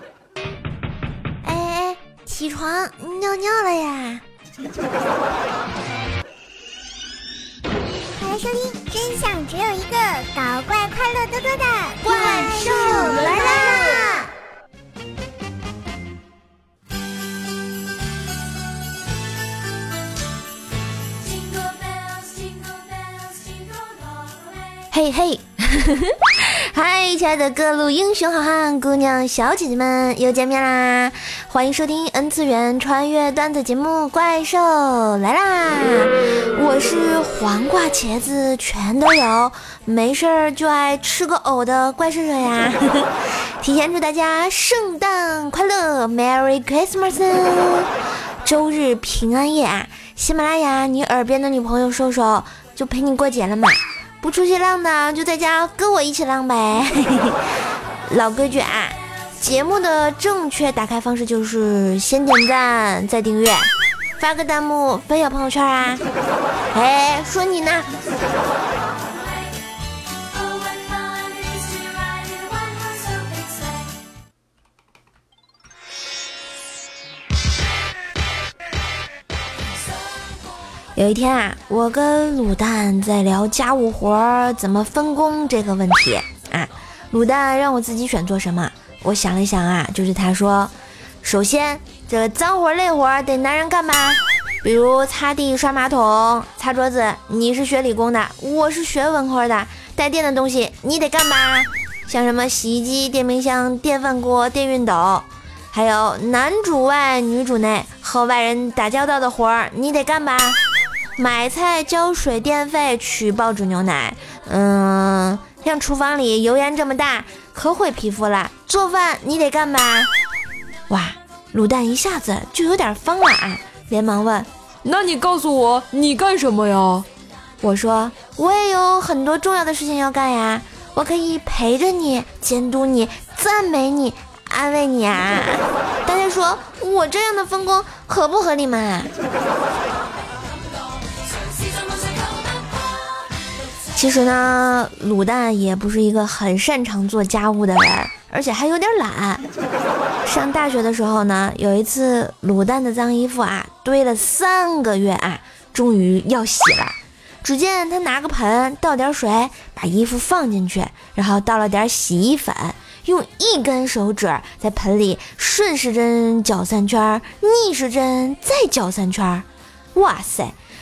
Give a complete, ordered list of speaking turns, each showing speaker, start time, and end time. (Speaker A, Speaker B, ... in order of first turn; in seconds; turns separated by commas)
Speaker A: 1.4-4.2, Speaker B: 8.0-14.2, Speaker A: 12.0-14.3, Speaker C: 21.5-23.6, Speaker A: 24.9-47.9, Speaker A: 48.4-57.4, Speaker A: 58.1-66.0, Speaker A: 66.7-67.9, Speaker C: 70.6-73.4, Speaker A: 81.0-110.6, Speaker A: 111.2-120.1, Speaker A: 120.9-124.5, Speaker C: 124.8-127.1, Speaker A: 127.6-139.1, Speaker A: 143.9-149.4, Speaker A: 150.2-170.6